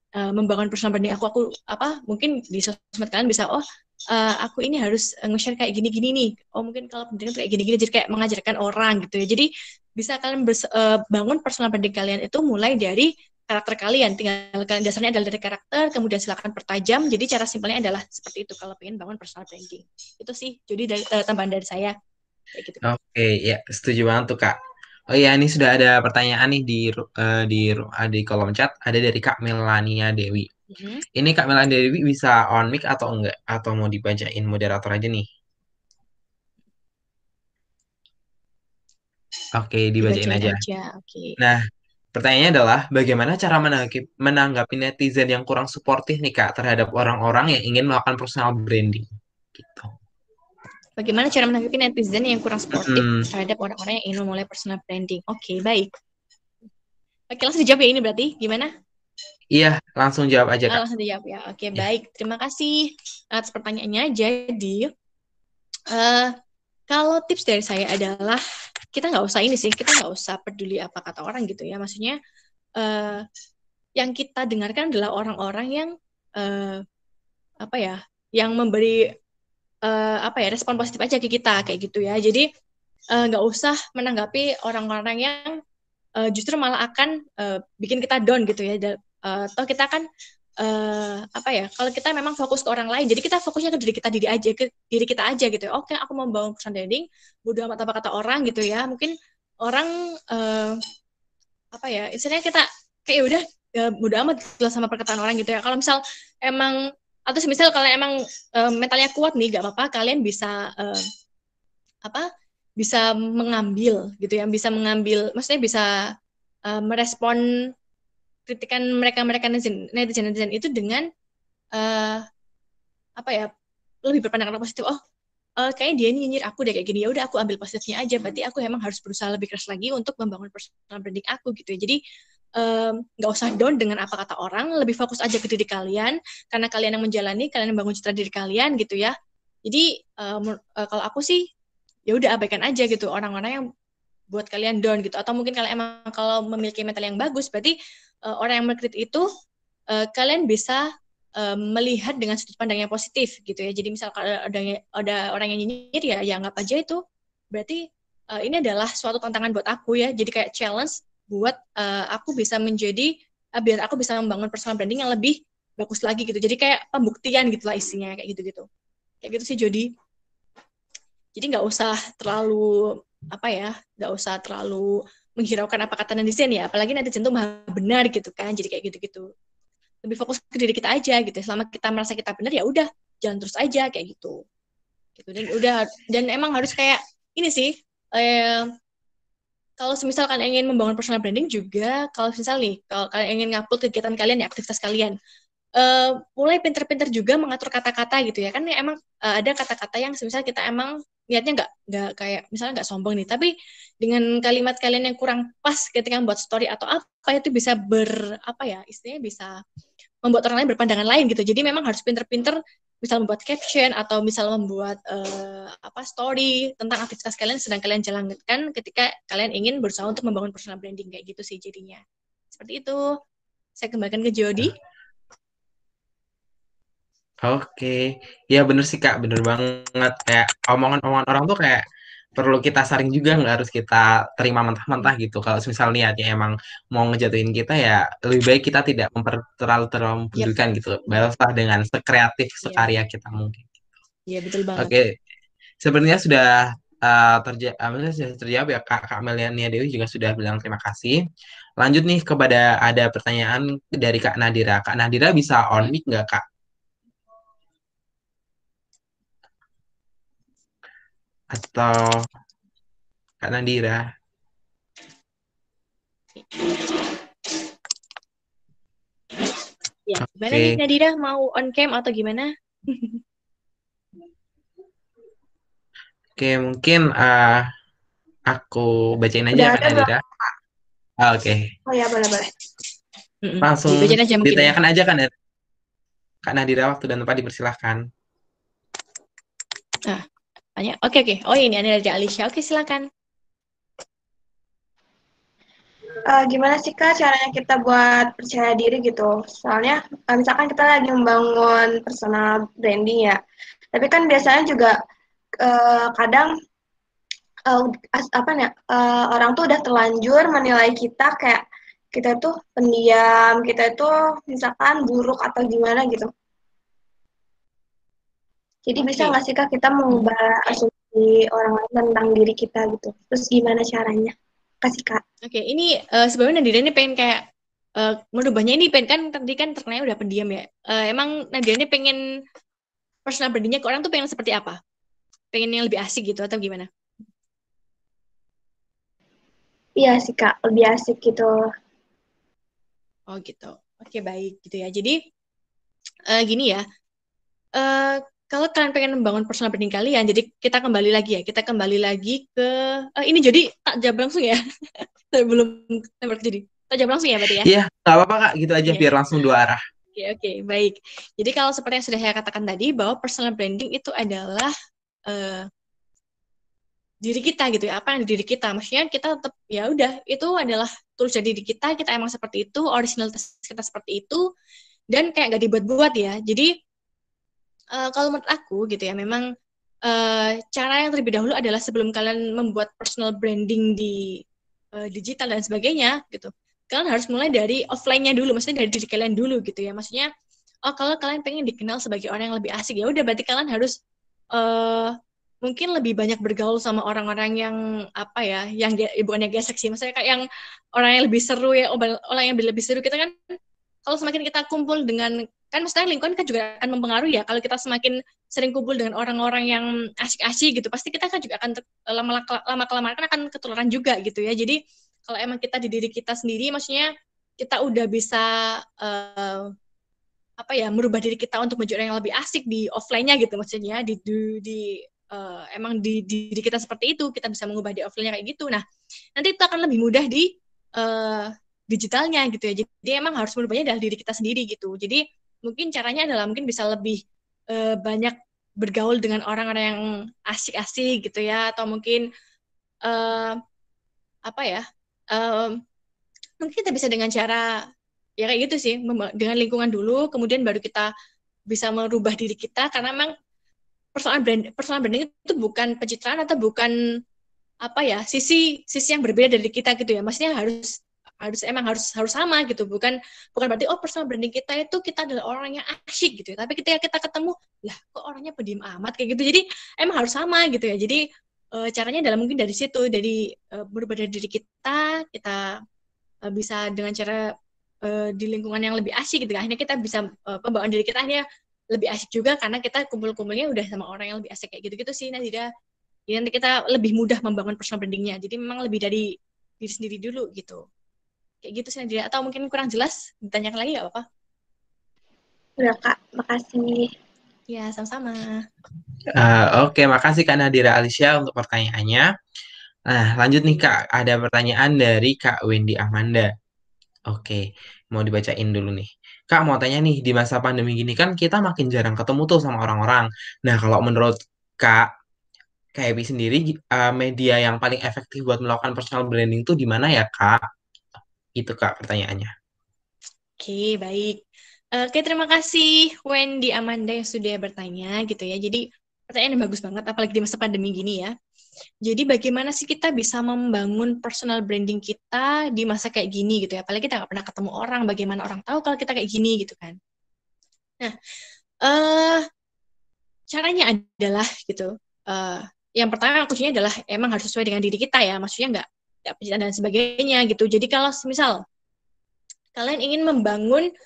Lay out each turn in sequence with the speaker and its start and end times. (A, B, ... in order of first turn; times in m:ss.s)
0:00.2-0:22.0 A
0:22.5-0:22.8 A
0:22.8-0:24.6 B
0:25.1-0:30.5 B
0:30.7-0:31.0 A
0:31.2-0:35.3 B
0:39.6-0:40.6 B
0:40.0-0:41.4 A
0:42.1-0:49.9 B
0:51.0-0:55.9 A
0:52.7-0:53.3 B
0:57.3-0:58.7 A
0:59.6-1:00.8 B
1:00.7-1:04.9 A
1:05.9-1:06.3 A
1:06.9-1:12.2 A
1:12.8-1:13.2 A
1:14.0-1:16.8 A
1:17.6-1:19.0 A
1:19.9-1:22.5 A
1:23.1-1:25.6 A
1:26.2-1:30.0 A
1:30.6-1:39.1 A
1:39.6-1:40.8 A
1:41.7-1:51.0 A
1:52.8-1:55.9 A
1:56.7-1:57.4 A
1:58.5-2:01.1 A
2:01.8-2:02.2 A
2:03.2-2:03.5 A
2:04.0-2:05.0 A
2:05.6-2:12.0 A
2:12.6-2:19.2 A
2:19.7-2:21.4 A
2:22.1-2:23.6 A
2:24.3-2:27.8 A
2:28.3-2:29.3 A
2:29.9-2:30.9 A
2:31.4-2:37.0 A
2:37.5-2:48.7 A
2:49.2-2:49.9 A
2:51.4-2:59.3 A
3:00.0-3:04.4 A
3:05.2-3:08.7 A
3:09.8-3:15.2 A
3:15.8-3:29.6 A
3:30.2-3:42.0 A
3:42.5-3:43.1 A
3:43.8-3:44.7 A
3:47.5-3:51.8 B
3:52.4-4:03.7 B
4:04.3-4:04.9 A
4:04.8-4:05.1 B
4:05.8-4:11.2 B
4:11.8-4:16.4 B
4:21.5-4:22.2 B
4:23.4-4:24.0 B
4:30.1-4:33.2 A
4:30.2-4:30.8 B
4:36.4-4:37.7 B
4:38.5-4:40.2 B
4:39.5-4:40.1 C
4:41.2-4:41.6 B
4:41.9-4:42.5 C
4:43.4-4:44.7 A
4:43.6-4:45.3 B
4:46.4-4:48.0 B
4:50.8-4:53.1 A
4:56.3-5:03.4 C
5:04.0-5:05.0 C
5:05.6-5:06.5 C
5:07.7-5:11.6 C
5:12.2-5:16.3 C
5:18.9-5:25.2 C
5:19.0-5:19.4 A
5:25.4-5:27.4 A
5:28.0-5:32.2 A
5:33.3-5:34.8 A
5:35.5-5:36.9 A
5:40.0-5:41.5 C
5:43.3-5:45.2 A
5:46.3-5:46.8 A
5:47.8-5:57.7 A
5:57.6-5:59.8 B
6:00.2-6:04.7 A
6:05.3-6:05.7 A
6:07.2-6:14.4 A
6:15.1-6:16.7 A
6:18.0-6:19.5 A
6:20.1-6:24.4 A
6:25.0-6:30.3 A
6:30.9-6:34.0 A
6:34.5-6:40.4 A
6:41.0-6:59.7 A
7:00.6-7:08.8 A
7:09.4-7:22.2 A
7:23.1-7:23.6 A
7:24.5-7:25.8 A
7:26.6-7:27.7 A
7:28.4-7:31.1 A
7:31.7-7:33.3 A
7:34.2-7:36.9 A
7:37.8-7:51.2 A
7:51.8-7:55.7 A
7:56.5-7:57.4 A
7:58.0-8:01.4 A
8:01.9-8:05.7 A
8:06.3-8:09.3 A
8:09.8-8:10.8 A
8:11.6-8:14.2 A
8:15.8-8:17.1 C
8:17.7-8:18.6 A
8:19.4-8:22.3 B
8:23.1-8:26.5 B
8:27.3-8:35.1 B
8:36.0-8:40.6 B
8:41.6-8:42.5 B
8:43.6-8:44.4 A
8:45.0-8:51.3 A
8:52.0-9:00.0 A
9:01.8-9:02.4 A
9:03.5-9:11.6 A
9:12.8-9:13.9 A